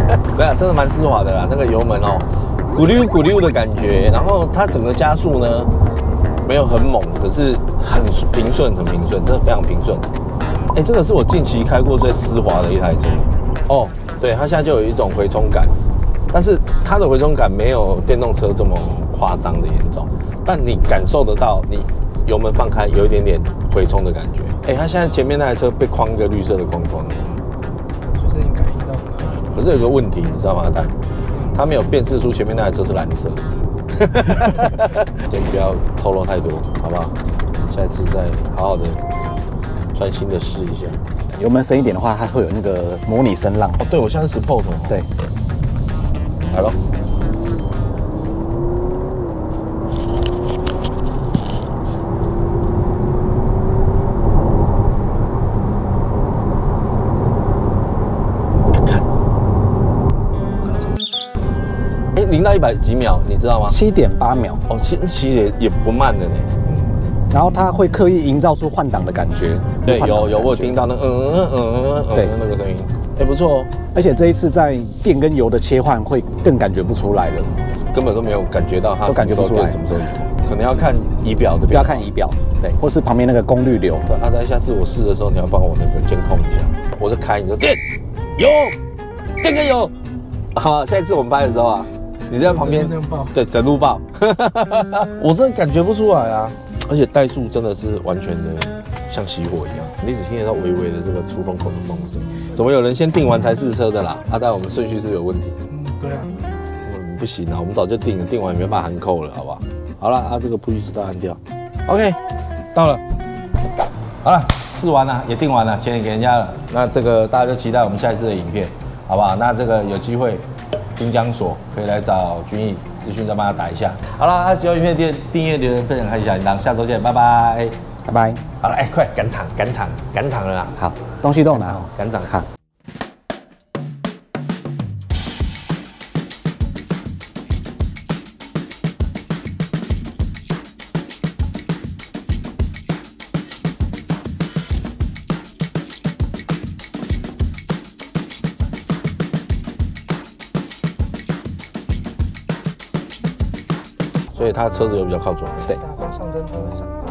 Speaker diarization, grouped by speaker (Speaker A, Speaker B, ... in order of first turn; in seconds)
Speaker A: 0.3-5.7, 6.4-10.1, 10.7-15.7, 16.3-27.4, 29.2-30.9, 31.5-33.5, 34.0-39.0, 39.9-41.0, 43.8-45.0, 46.5-46.8, 58.7-59.1, 62.1-63.8, 64.7-66.5, 69.8-73.7, 77.9-82.0, 84.0-87.8, 88.4-88.8, 89.4-89.9, 90.5-105.6, 106.8-112.2, 112.7-113.0, 114.2-120.4, 121.0-127.7, 128.6-130.8, 131.5-132.4, 154.3-155.8
Speaker B: 28.1-29.4, 92.5-93.3, 105.7-106.4, 155.9-156.9
Speaker C: 41.3-43.8, 63.6-64.6, 67.3-70.7, 73.9-77.5, 79.0-79.8, 81.7-84.1, 128.1-128.4, 130.8-132.5